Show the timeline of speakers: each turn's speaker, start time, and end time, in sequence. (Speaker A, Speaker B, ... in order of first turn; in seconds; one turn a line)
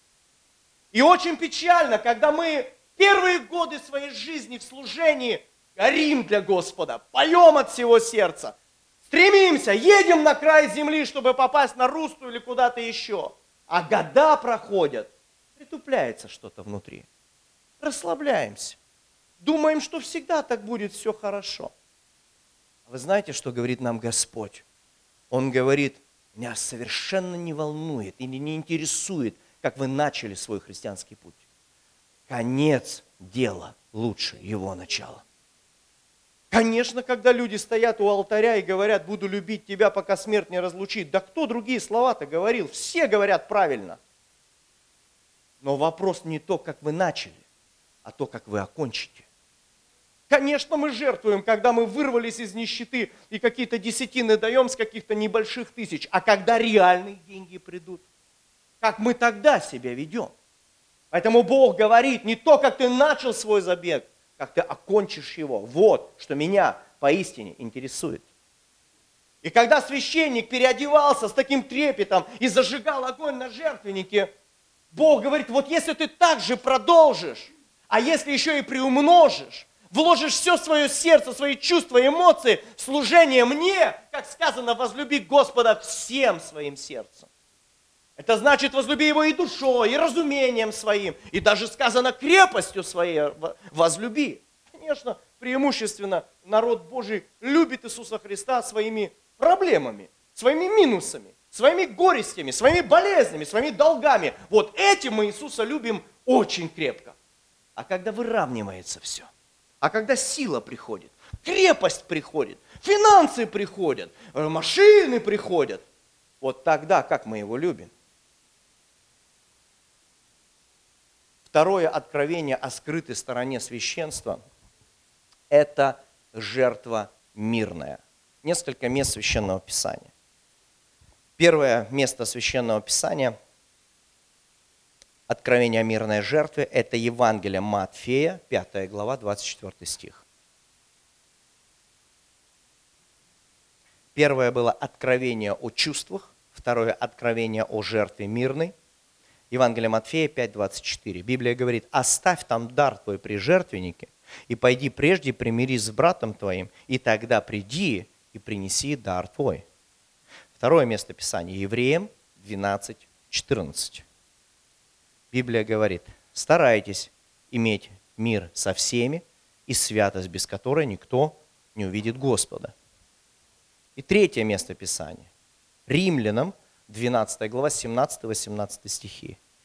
Speaker A: 0.9-8.5
Speaker A: 9.1-17.1
Speaker A: 17.8-18.8
Speaker A: 19.4-21.7
Speaker A: 22.9-24.6
Speaker A: 25.3-31.4
Speaker A: 32.3-35.2
Speaker A: 36.5-44.0
Speaker A: 45.6-47.4
Speaker A: 48.0-49.2
Speaker A: 50.3-58.0
Speaker A: 58.8-60.3
Speaker A: 61.1-68.2
Speaker A: 69.4-74.3
Speaker A: 74.9-87.3
Speaker A: 88.2-107.2
Speaker A: 107.8-109.3
Speaker A: 109.8-115.8
Speaker A: 116.4-117.9
Speaker A: 121.5-124.4
Speaker A: 125.5-130.1
Speaker A: 131.4-133.3
Speaker A: 135.3-140.2
Speaker A: 144.1-148.7
Speaker A: 149.5-159.6
Speaker A: 160.6-164.0
Speaker A: 165.3-172.7
Speaker A: 173.9-175.3
Speaker A: 175.9-179.4